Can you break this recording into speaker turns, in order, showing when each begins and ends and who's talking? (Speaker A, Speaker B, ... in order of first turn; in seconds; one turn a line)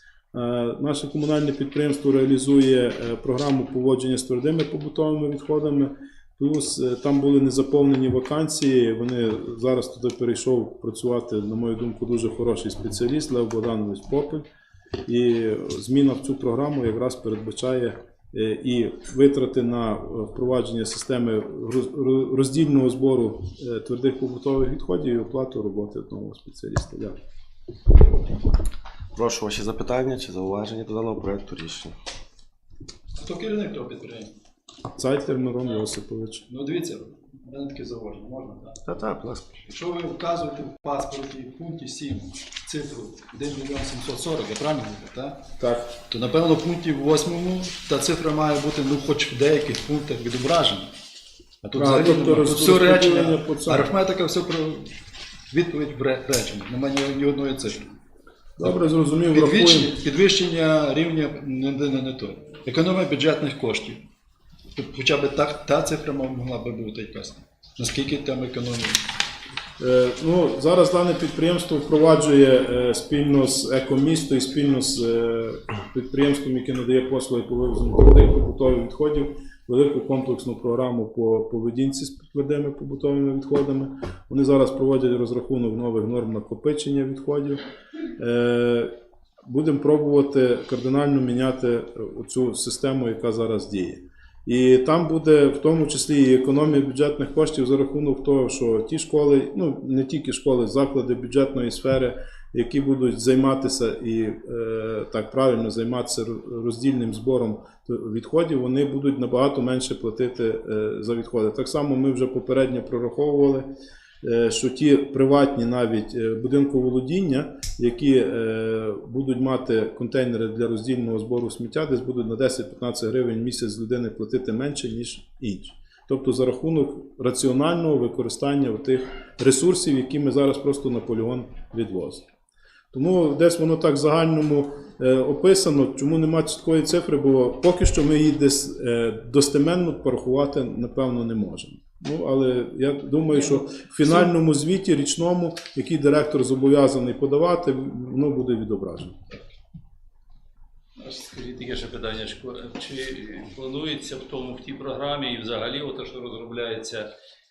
Speaker A: 0.3-14.5
Speaker A: 15.1-27.2
Speaker B: 29.1-31.9
Speaker C: 33.1-34.3
Speaker A: 35.0-36.5
Speaker C: 36.5-38.8
Speaker B: 38.9-39.6
Speaker C: 39.7-45.5
Speaker A: 45.6-45.9
Speaker C: 46.1-50.9
Speaker C: 51.6-55.0
Speaker A: 51.8-53.9
Speaker C: 55.5-58.0
Speaker A: 58.6-60.0
Speaker C: 59.3-64.1
Speaker C: 64.8-69.1
Speaker A: 69.8-87.6
Speaker A: 88.2-132.2
Speaker A: 132.9-149.2
Speaker D: 151.0-157.1